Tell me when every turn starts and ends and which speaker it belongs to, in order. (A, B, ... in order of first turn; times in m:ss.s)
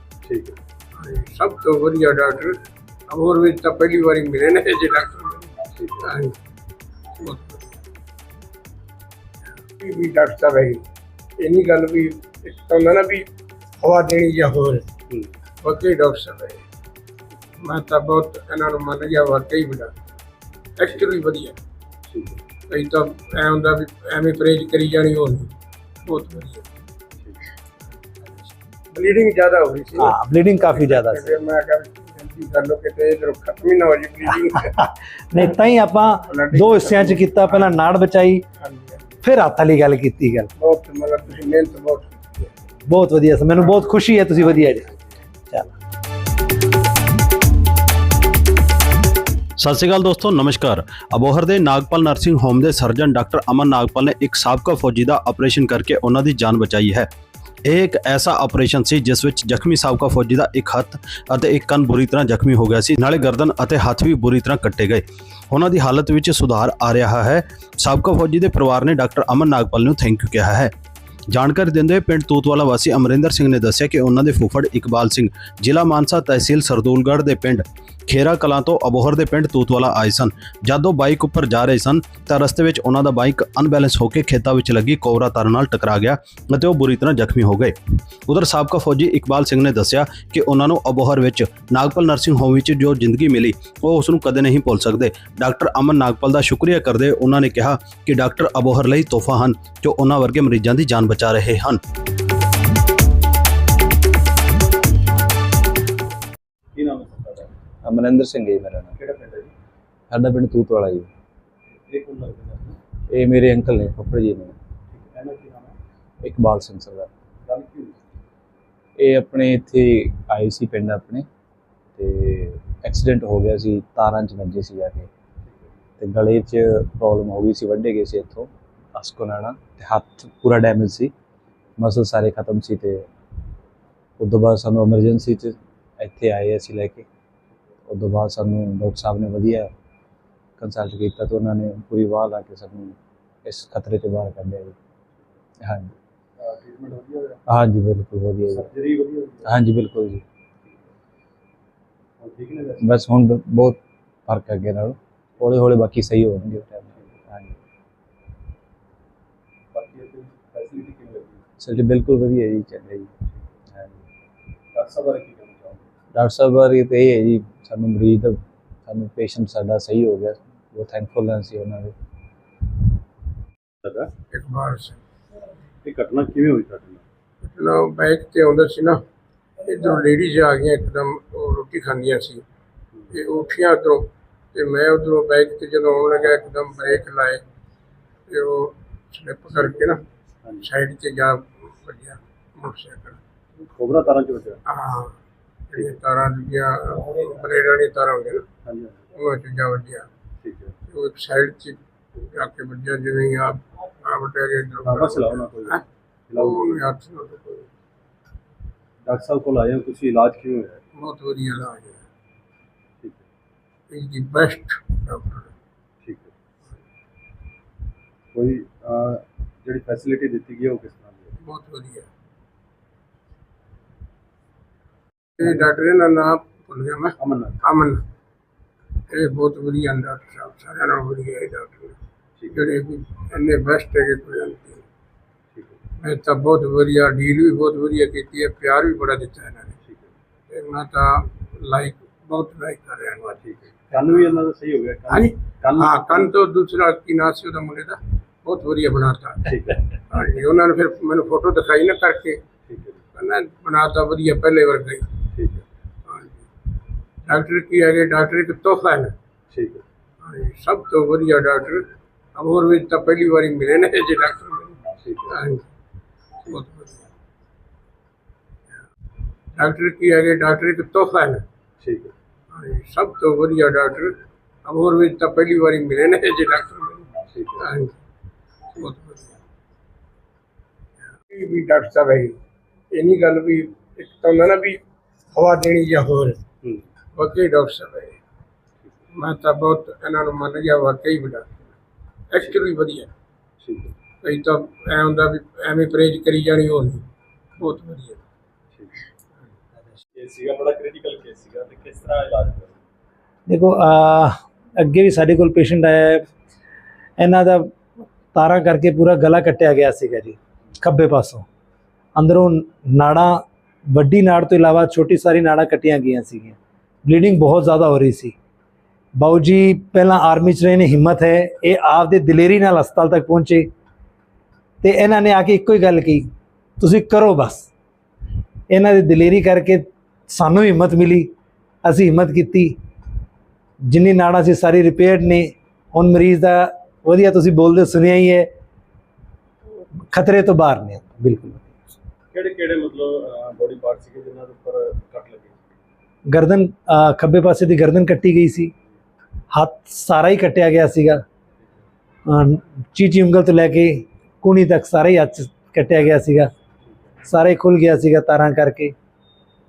0:00.2-0:00.6 A
0:00.9-0:02.6 B
0:03.1-0:06.4 B
0:05.8-0:06.1 A
0:07.1-0:07.8 B
0:09.8-0:10.8 B
0:11.4-0:13.2 B
0:13.8-0:14.9 B
0:15.6-0:16.6 B
0:17.6-0:19.9 B
0:20.8-0:21.6 B
0:22.1-0:22.4 A
0:22.7-0:25.5 B
0:26.0-0:26.7 B
0:28.9-0:34.8 B
0:30.0-0:31.4 C
0:34.7-0:38.4 C
0:36.3-0:37.7 B
0:38.6-0:39.1 B
0:39.2-0:40.5 C
0:40.6-0:42.5 B
0:42.9-0:44.9 C
0:49.6-0:57.1 D
0:57.6-1:10.7 D
1:11.3-1:27.7 D
1:28.3-1:41.8 D
1:46.7-1:47.5 A
1:47.8-1:48.9 E
1:49.0-1:49.5 A
1:50.1-1:51.1 E
1:51.9-1:52.8 A
1:53.1-1:54.6 E
1:54.9-1:55.7 A
1:56.2-1:57.1 E
1:57.4-1:58.0 A
1:59.0-2:01.3 E
2:02.0-2:05.1 E
2:05.4-2:05.7 A
2:06.0-2:11.1 E
2:11.8-2:13.0 E
2:14.2-2:17.0 E
2:17.9-2:19.7 E
2:20.6-2:24.8 E
2:25.6-2:25.9 E
2:26.4-2:27.4 A
2:27.5-2:28.7 E
2:28.5-2:29.5 A
2:29.4-2:30.2 E
2:32.2-2:33.0 A
2:32.8-2:37.5 E
2:39.7-2:41.4 A
2:41.6-2:43.1 E
2:44.7-2:45.8 A
2:46.1-2:51.9 E
2:53.8-2:54.1 A
2:54.3-2:55.0 B
2:55.8-2:57.0 A
2:57.4-2:59.0 B
2:59.6-3:02.4 B
3:03.1-3:07.4 B
3:08.3-3:10.0 B
3:10.6-3:13.2 B
3:13.8-3:14.6 A
3:14.6-3:15.2 B
3:15.7-3:18.4 B
3:18.6-3:19.1 A
3:19.2-3:20.1 B
3:20.4-3:20.7 A
3:20.9-3:25.8 B
3:24.8-3:26.8 A
3:26.4-3:27.7 B
3:29.0-3:30.8 A
3:31.0-3:32.0 B
3:33.9-3:35.5 B
3:36.0-3:36.3 A
3:38.3-3:41.3 A
3:41.4-3:42.1 B
3:45.4-3:48.0 B
3:47.2-3:47.6 A
3:49.1-3:52.0 B
3:52.5-3:54.8 B
3:55.5-3:55.8 A
3:56.0-3:59.8 B
3:59.8-4:00.1 A
4:00.5-4:03.4 B
4:03.4-4:06.3 A
4:05.1-4:09.5 B
4:09.4-4:09.8 A
4:10.1-4:12.4 B
4:12.7-4:13.0 A
4:13.1-4:15.1 B
4:15.3-4:15.6 A
4:16.0-4:16.4 B
4:17.2-4:19.1 B
4:19.5-4:19.8 A
4:20.2-4:25.6 B
4:25.0-4:25.3 A
4:26.4-4:27.1 B
4:29.6-4:31.4 B
4:31.8-4:32.1 A
4:32.5-4:37.9 B
4:37.3-4:37.6 A
4:38.7-4:39.4 B
4:41.2-4:42.4 B
4:42.9-4:44.8 B
4:45.3-4:46.4 B
4:47.1-4:48.2 B
4:49.1-4:51.6 B
4:52.3-4:53.1 B
4:53.6-4:53.9 A
4:54.2-4:57.0 B
4:57.6-4:58.2 B
5:00.2-5:02.8 A
5:03.5-5:06.2 C
5:07.2-5:07.7 C
5:08.3-5:11.4 C
5:12.2-5:18.3 C
5:19.2-5:23.6 C
5:24.8-5:26.3 C
5:26.8-5:27.7 C
5:28.7-5:31.3 C
5:31.8-5:32.8 C
5:33.9-5:38.5 C
5:40.1-5:41.7 C
5:42.3-5:45.6 A
5:46.3-5:48.7 C
5:49.5-5:51.2 C
5:52.3-5:56.5 C
5:57.2-5:58.9 C